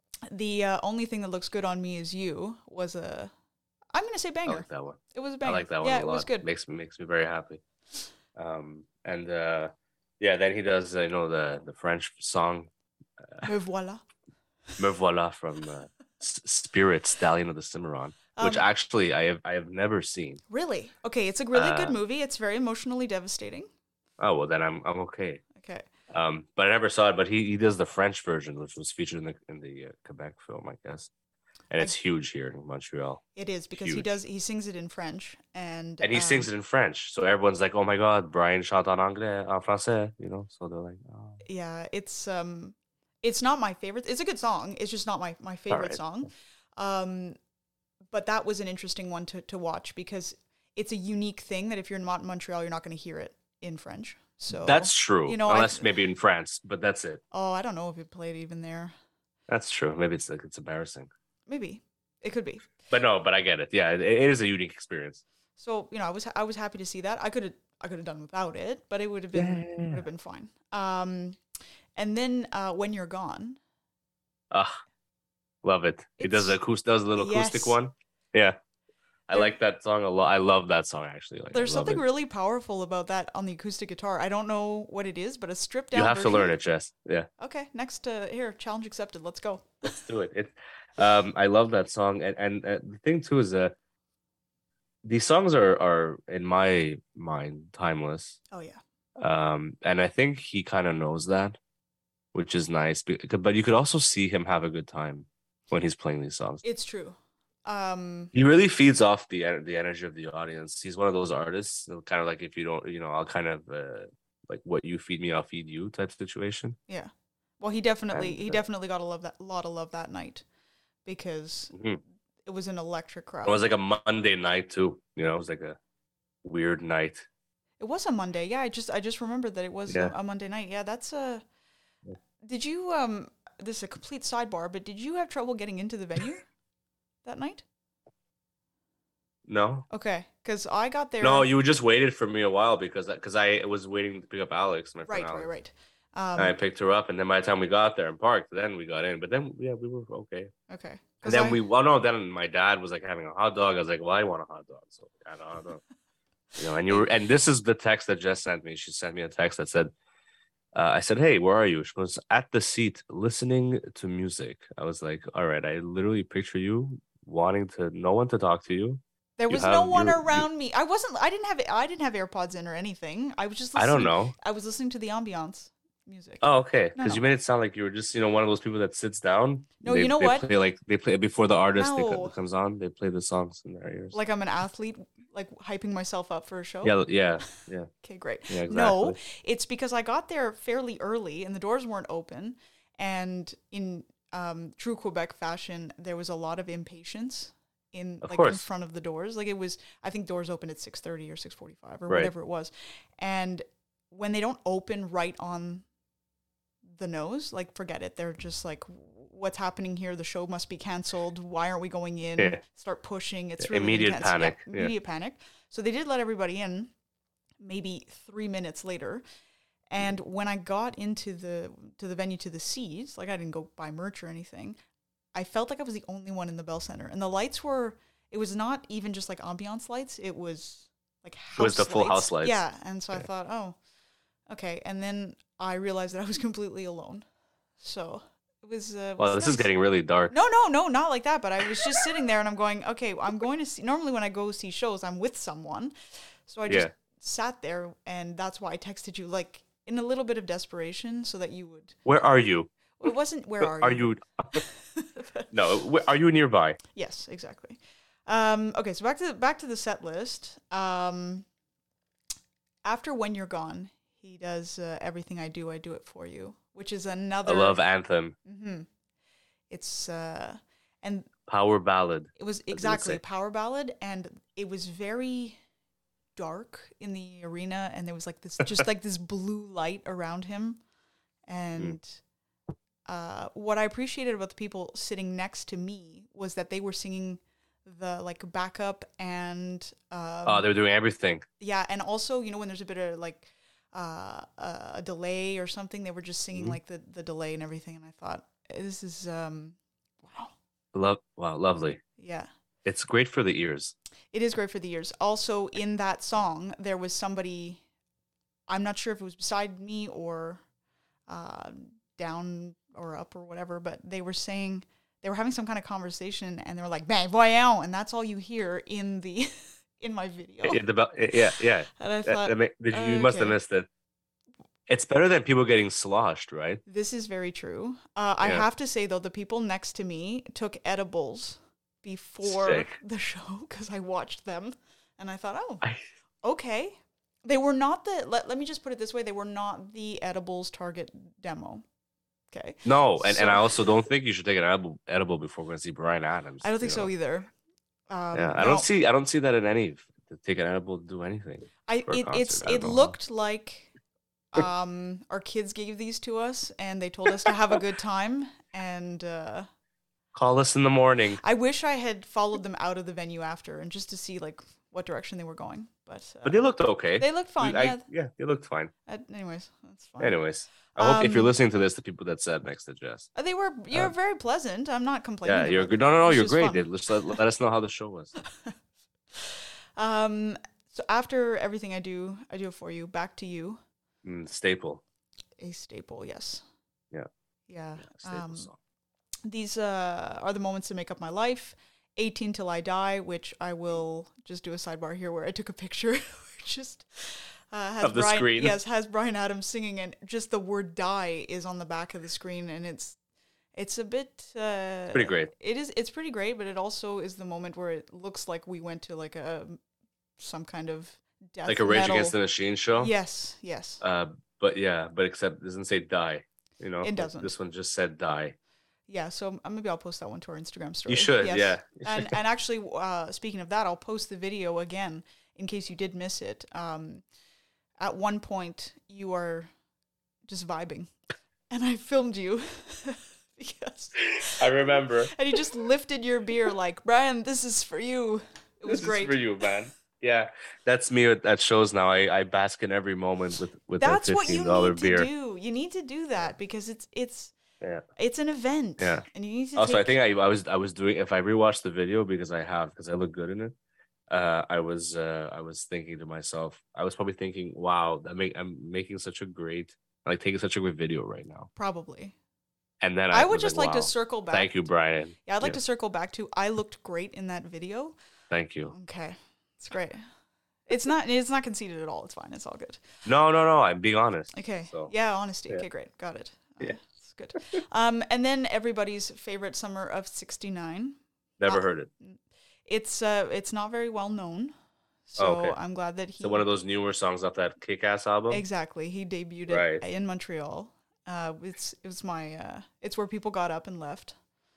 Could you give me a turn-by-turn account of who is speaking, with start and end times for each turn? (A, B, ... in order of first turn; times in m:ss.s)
0:00.3-0:03.3 A
0:03.9-0:06.4 A
0:04.5-0:07.6 B
0:08.4-0:12.7 B
0:13.4-0:14.0 A
0:14.8-0:20.4 B
0:18.4-0:18.7 A
0:20.5-0:23.7 A
0:21.5-0:22.0 B
0:24.2-0:25.4 B
0:25.6-0:25.9 A
0:26.1-0:31.1 B
0:31.7-0:33.2 B
0:33.4-0:36.5 A
0:33.8-0:34.1 B
0:36.0-0:41.4 B
0:41.4-0:47.4 A
0:45.7-0:46.0 B
0:48.1-0:55.9 A
0:54.5-0:57.2 B
0:57.3-0:58.9 A
0:59.5-1:01.1 B
1:01.5-1:02.7 A
1:02.9-1:05.2 B
1:05.6-1:11.4 A
1:09.3-1:10.1 B
1:12.0-1:13.6 A
1:14.5-1:14.8 B
1:15.6-1:18.6 B
1:16.2-1:16.6 A
1:17.2-1:17.8 A
1:19.3-1:22.0 B
1:21.5-1:26.6 A
1:25.9-1:27.3 B
1:27.4-1:30.0 A
1:29.9-1:33.7 B
1:35.0-1:38.4 B
1:38.5-1:38.8 A
1:39.2-1:41.6 B
1:42.3-1:46.6 B
1:46.6-1:48.3 A
1:48.3-1:56.8 B
1:56.9-2:00.4 A
1:58.1-1:58.6 B
2:01.0-2:01.8 A
2:01.7-2:02.0 B
2:02.4-2:03.6 A
2:03.4-2:05.8 B
2:06.4-2:07.3 B
2:07.8-2:11.4 A
2:09.9-2:10.1 B
2:12.4-2:16.4 A
2:17.2-2:17.6 A
2:19.5-2:19.9 B
2:19.9-2:21.5 A
2:21.2-2:25.5 B
2:25.1-2:26.6 A
2:26.4-2:30.5 B
2:30.7-2:31.6 A
2:31.2-2:35.8 B
2:36.6-2:39.9 B
2:40.7-2:50.5 B
2:49.4-2:57.2 A
2:53.8-2:54.3 B
2:56.4-3:04.2 B
2:59.8-3:00.5 A
3:01.8-3:02.4 A
3:04.1-3:07.0 A
3:06.8-3:07.9 B
3:08.0-3:25.8 A
3:08.5-3:09.2 B
3:18.2-3:18.6 B
3:26.9-3:36.9 A
3:33.6-3:34.9 B
3:37.6-3:39.2 A
3:39.9-3:44.8 A
3:45.3-3:53.8 A
3:51.6-3:52.6 B
3:54.5-3:57.2 A
3:57.8-3:59.7 A
3:59.2-4:00.3 B
4:00.3-4:05.9 A
4:06.5-4:12.0 A
4:12.0-4:12.7 B
4:13.0-4:15.5 A
4:13.6-4:14.6 B
4:15.5-4:16.8 B
4:17.0-4:21.4 A
4:22.8-4:27.8 A
4:27.4-4:28.4 B
4:28.4-4:28.9 A
4:29.7-4:31.3 A
4:31.5-4:33.2 B
4:32.4-4:35.6 A
4:36.4-4:40.8 A
4:41.5-4:42.2 A
4:43.1-4:50.7 A
4:50.5-4:51.5 B
4:51.6-5:00.5 A
5:00.9-5:02.0 B
5:02.2-5:02.5 A
5:02.8-5:04.0 B
5:04.3-5:07.8 A
5:08.7-5:10.6 A
5:11.3-5:20.8 A
5:20.6-5:23.9 B
5:21.5-5:23.6 A
5:24.9-5:26.8 B
5:26.9-5:35.8 A
5:32.4-5:33.0 B
5:36.4-5:41.8 A
5:42.5-5:43.9 A
5:42.8-5:47.1 B
5:46.6-5:47.5 A
5:48.1-5:48.9 A
5:48.3-5:53.2 B
5:51.9-5:53.9 A
5:54.5-5:59.7 A
6:00.3-6:01.4 B
6:01.4-6:08.0 A
6:06.4-6:08.9 B
6:09.1-6:10.4 A
6:10.2-6:13.3 B
6:10.9-6:11.5 A
6:13.4-6:17.4 A
6:15.4-6:18.4 B
6:19.4-6:23.8 A
6:24.2-6:25.0 B
6:25.6-6:26.6 A
6:27.7-6:28.7 A
6:28.0-6:28.8 B
6:29.5-6:43.2 A
6:38.0-6:38.8 B
6:43.8-6:49.8 A
6:45.1-6:45.5 B
6:50.4-6:52.4 A
6:51.7-6:53.1 B
6:53.0-6:54.0 A
6:54.0-6:58.6 B
6:57.0-6:57.5 A
6:59.1-7:07.2 A
7:01.1-7:02.4 B
7:08.0-7:09.7 A
7:10.5-7:11.1 A
7:11.7-7:19.4 A
7:14.3-7:15.4 B
7:18.9-7:25.3 B
7:24.0-7:27.5 A
7:28.2-7:30.1 A
7:29.0-7:29.2 B
7:29.8-7:33.8 B
7:34.3-7:41.7 B
7:41.8-7:42.4 A
7:43.0-7:45.8 B
7:43.3-7:44.7 A
7:45.4-7:48.2 A
7:48.5-7:48.9 B
7:48.9-7:50.2 A
7:50.9-7:53.0 A
7:53.2-7:55.1 B
7:54.5-8:04.7 A
8:01.6-8:02.1 B
8:05.3-8:06.7 A
8:05.4-8:05.8 B
8:06.4-8:08.6 B
8:08.5-8:14.4 A
8:09.7-8:10.0 B